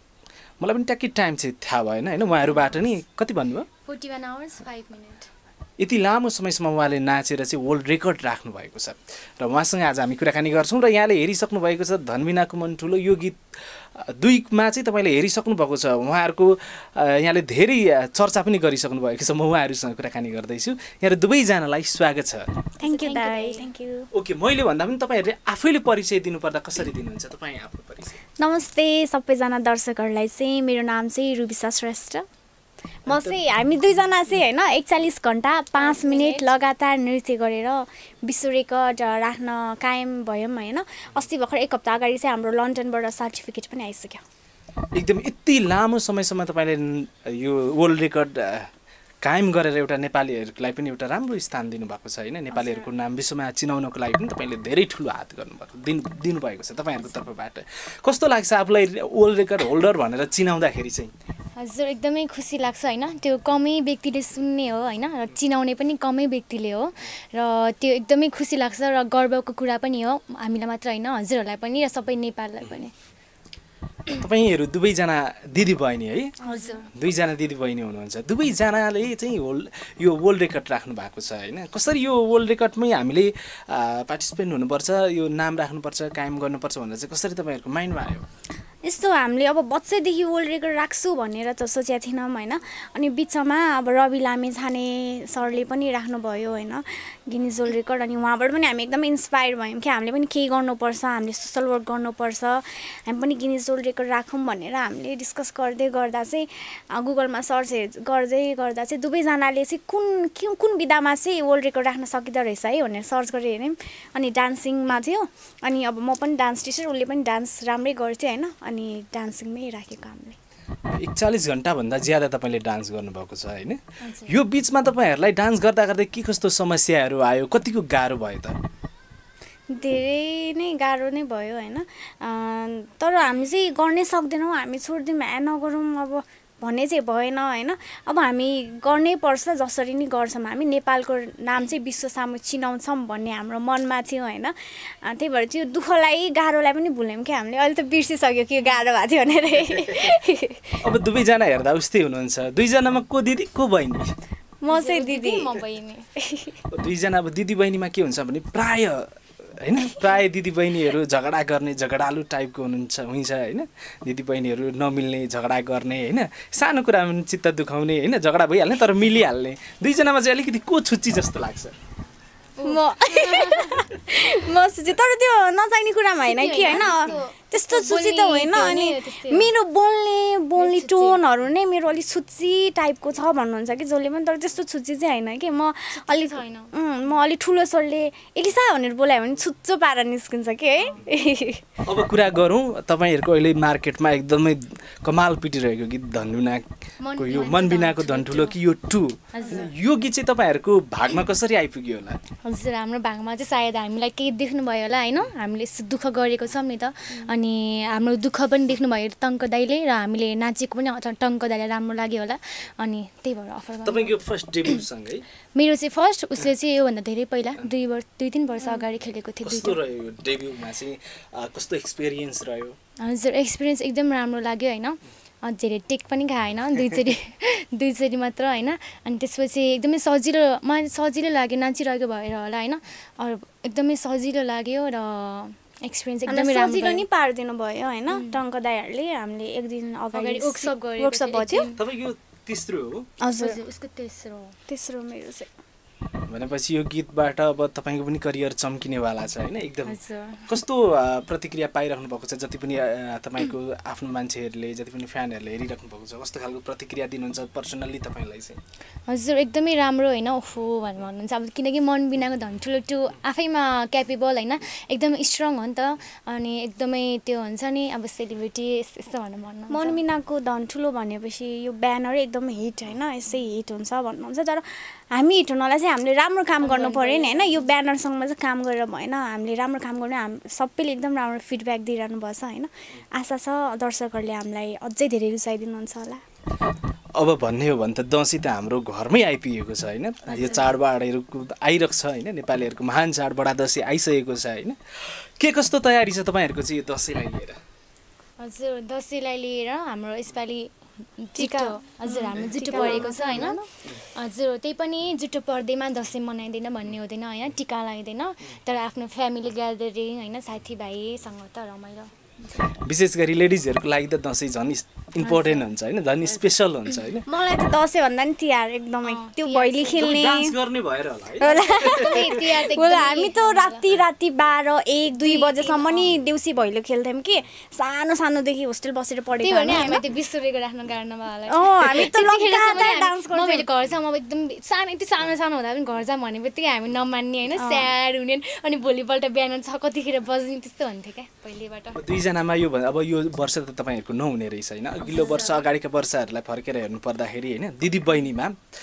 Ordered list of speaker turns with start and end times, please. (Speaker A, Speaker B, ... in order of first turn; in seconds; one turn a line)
Speaker A: 0.6-3.7
Speaker B: 3.9-5.3
Speaker A: 5.8-13.4
Speaker A: 14.0-22.6
Speaker B: 22.8-23.7
Speaker C: 22.8-24.1
Speaker A: 24.1-28.2
Speaker C: 28.4-32.2
Speaker C: 33.1-44.2
Speaker B: 35.7-36.6
Speaker A: 44.9-48.7
Speaker A: 49.2-61.1
Speaker B: 61.6-72.9
Speaker A: 74.1-76.3
Speaker B: 76.4-76.9
Speaker C: 76.5-76.8
Speaker A: 76.9-88.2
Speaker C: 88.8-120.4
Speaker A: 121.0-128.6
Speaker B: 124.0-124.3
Speaker C: 129.7-150.8
Speaker A: 149.6-150.1
Speaker A: 150.8-154.1
Speaker C: 154.6-155.6
Speaker B: 154.7-156.0
Speaker C: 156.2-156.5
Speaker A: 156.7-171.8
Speaker B: 172.6-173.8
Speaker C: 172.6-191.6
Speaker B: 176.2-179.5
Speaker B: 180.6-181.2
Speaker B: 185.9-186.7
Speaker A: 191.8-202.2
Speaker B: 197.0-198.6
Speaker B: 199.3-199.7
Speaker B: 202.4-214.2
Speaker A: 213.8-215.2
Speaker B: 215.5-219.8
Speaker A: 219.4-222.8
Speaker B: 223.0-237.0
Speaker C: 236.3-241.7
Speaker B: 238.1-238.4
Speaker B: 240.1-241.8
Speaker A: 241.7-243.1
Speaker C: 243.2-243.6
Speaker B: 243.4-244.6
Speaker C: 244.7-245.5
Speaker A: 246.3-258.6
Speaker B: 249.9-250.5
Speaker B: 259.1-270.0
Speaker C: 269.7-286.2
Speaker B: 276.6-277.7
Speaker A: 287.2-297.6
Speaker B: 290.3-290.7
Speaker B: 298.4-312.1
Speaker C: 301.4-303.6
Speaker A: 302.4-302.9
Speaker A: 312.6-317.2
Speaker B: 315.2-315.7
Speaker C: 317.2-320.6
Speaker B: 319.0-320.1
Speaker A: 319.9-322.3
Speaker C: 321.4-330.0
Speaker B: 321.5-323.9
Speaker B: 325.2-326.1
Speaker B: 329.4-342.0
Speaker C: 331.5-333.7
Speaker C: 337.5-337.9
Speaker A: 341.9-348.6
Speaker B: 345.1-345.6